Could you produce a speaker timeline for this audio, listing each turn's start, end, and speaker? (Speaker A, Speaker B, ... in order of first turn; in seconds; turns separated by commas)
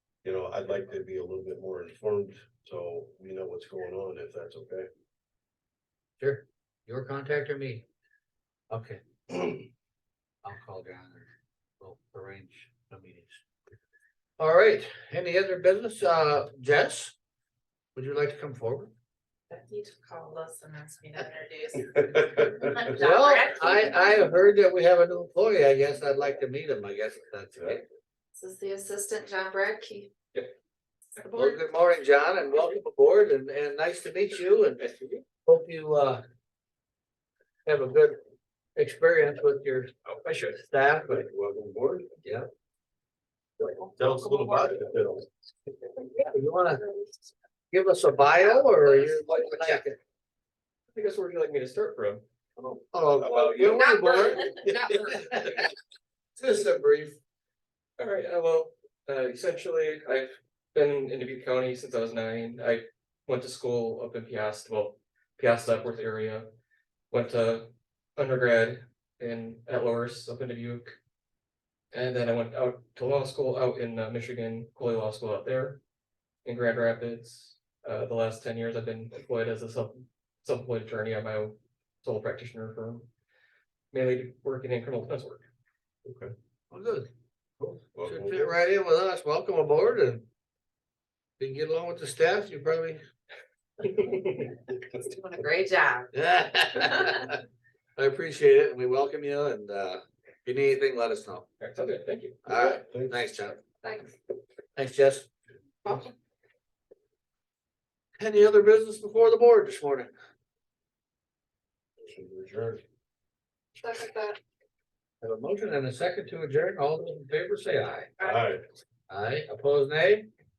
Speaker A: 0.2-4.9, Speaker B: 6.2-7.9, Speaker B: 8.7-9.6, Speaker B: 10.4-13.4, Speaker B: 14.4-17.1, Speaker B: 17.9-18.9, Speaker C: 19.5-24.4, Speaker A: 21.9-22.7, Speaker B: 22.9-27.9, Speaker C: 28.4-30.1, Speaker C: 31.1-31.6, Speaker B: 31.3-34.9, Speaker D: 34.8-35.2, Speaker B: 35.5-36.2, Speaker B: 37.7-38.2, Speaker B: 38.8-39.9, Speaker D: 40.1-40.5, Speaker B: 40.5-41.3, Speaker A: 41.1-42.1, Speaker A: 44.0-45.3, Speaker B: 44.0-44.7, Speaker B: 46.2-46.8, Speaker B: 47.7-50.0, Speaker D: 50.9-52.2, Speaker B: 52.6-55.7, Speaker A: 53.2-53.9, Speaker C: 53.6-55.1, Speaker B: 56.4-57.2, Speaker D: 58.0-66.5, Speaker D: 67.1-71.0, Speaker D: 71.9-75.8, Speaker D: 76.5-83.1, Speaker D: 83.9-85.5, Speaker A: 86.0-86.3, Speaker B: 86.7-87.1, Speaker B: 87.6-90.3, Speaker A: 87.9-88.5, Speaker B: 91.4-93.0, Speaker D: 93.9-94.6, Speaker C: 94.8-96.1, Speaker B: 96.1-97.4, Speaker B: 98.0-101.5, Speaker D: 101.6-102.4, Speaker B: 102.5-103.6, Speaker A: 102.5-103.3, Speaker C: 103.8-104.2, Speaker B: 104.8-105.3, Speaker C: 105.9-106.1, Speaker B: 108.2-110.1, Speaker A: 112.0-112.8, Speaker C: 113.8-114.4, Speaker B: 115.2-118.2, Speaker A: 118.2-118.6, Speaker B: 119.1-120.3